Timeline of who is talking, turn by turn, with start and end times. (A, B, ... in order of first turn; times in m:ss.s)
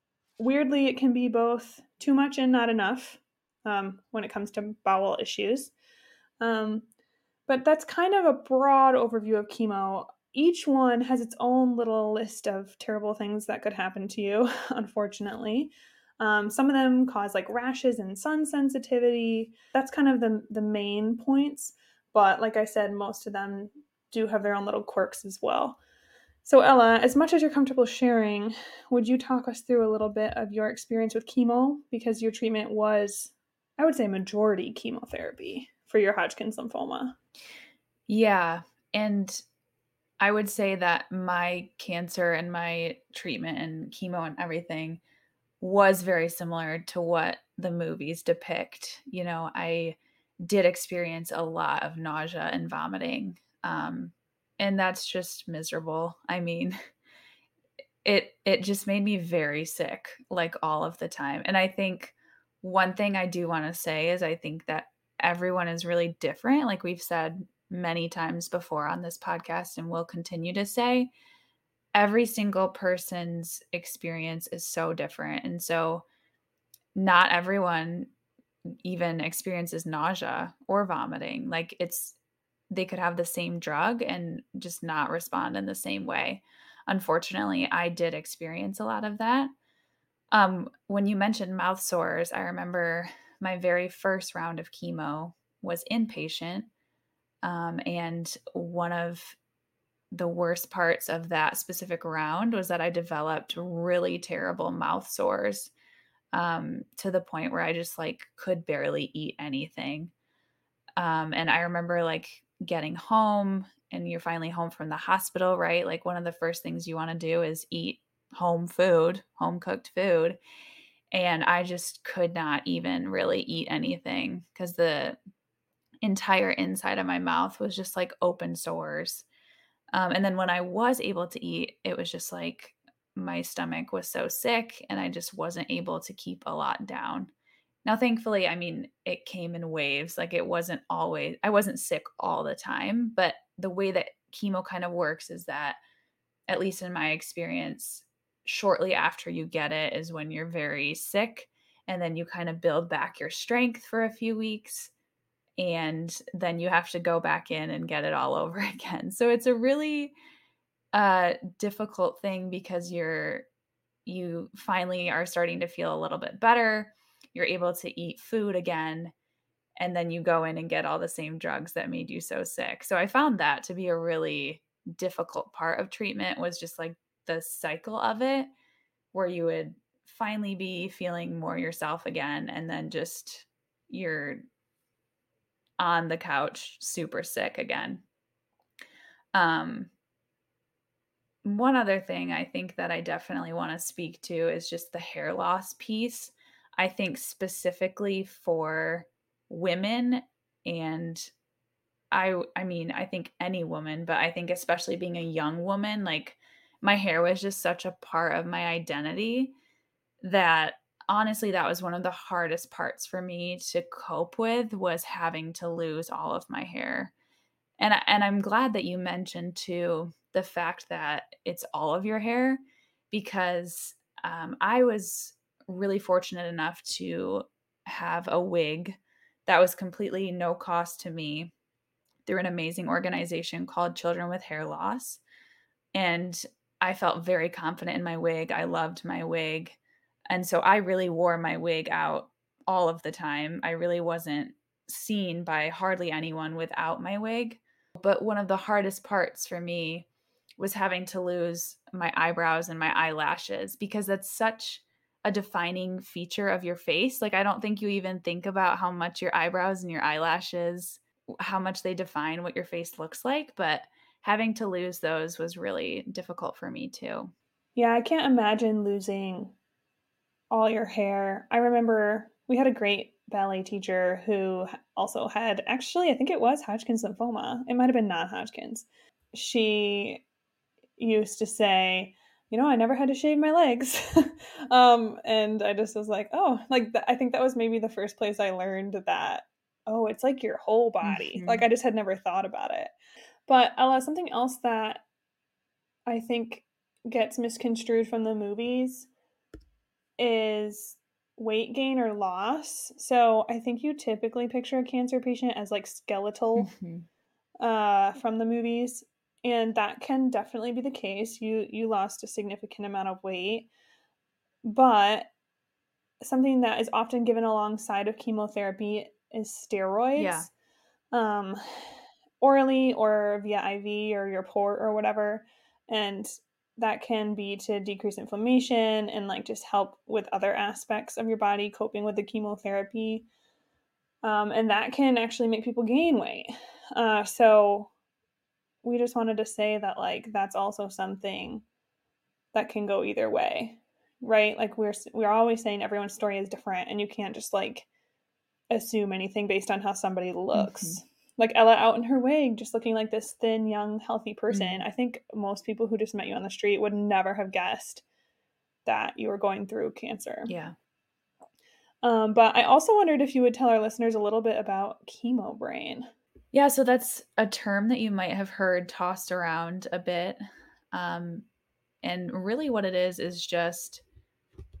0:00.4-0:05.7 A
0:06.4-0:06.8 A
0:07.5-0:25.8 A
0:26.4-0:37.2 A
0:38.1-0:39.4 B
0:40.2-0:45.0 B
0:45.6-0:56.7 B
0:58.0-1:11.1 B
1:11.9-1:16.0 B
1:16.9-1:18.1 B
1:18.7-1:22.2 B
1:22.7-1:29.5 B
1:30.3-1:36.7 B
1:37.4-1:39.4 B
1:40.1-1:45.7 B
1:46.3-1:50.1 B
1:51.0-2:00.4 B
2:01.1-2:05.2 B
2:06.0-2:09.2 B
2:09.9-2:17.3 B
2:17.8-2:25.8 B
2:26.5-2:34.9 B
2:35.6-2:40.1 B
2:40.9-2:43.4 B
2:44.0-2:49.1 B
2:49.8-2:58.5 B
2:59.1-3:04.4 B
3:05.8-3:08.0 B
3:09.3-3:09.9 B
3:11.4-3:21.3 B
3:22.1-3:29.5 B
3:30.2-3:37.1 B
3:37.8-3:42.6 B
3:43.1-3:51.5 B
3:52.2-3:55.2 B
3:55.9-3:59.8 B
4:00.3-4:10.1 B
4:10.6-4:27.3 B
4:27.8-4:29.5 A
4:30.5-4:40.2 A
4:41.0-4:52.9 A
4:51.0-4:51.6 B
4:53.5-4:55.0 A
4:56.1-4:59.1 A
5:00.2-5:06.7 A
5:06.6-5:07.1 B
5:07.6-5:13.7 A
5:14.6-5:15.3 A
5:16.2-5:20.5 A
5:20.2-5:20.5 B
5:21.1-5:33.3 A
5:34.2-5:37.9 A
5:38.8-5:41.6 A
5:42.5-5:47.9 A
5:48.7-5:58.0 A
5:50.5-5:51.0 B
5:54.5-5:54.8 B
5:58.8-6:00.5 A
6:00.5-6:00.7 B
6:02.0-6:06.1 A
6:06.5-6:10.4 B
6:10.9-6:11.4 B
6:12.0-6:14.0 B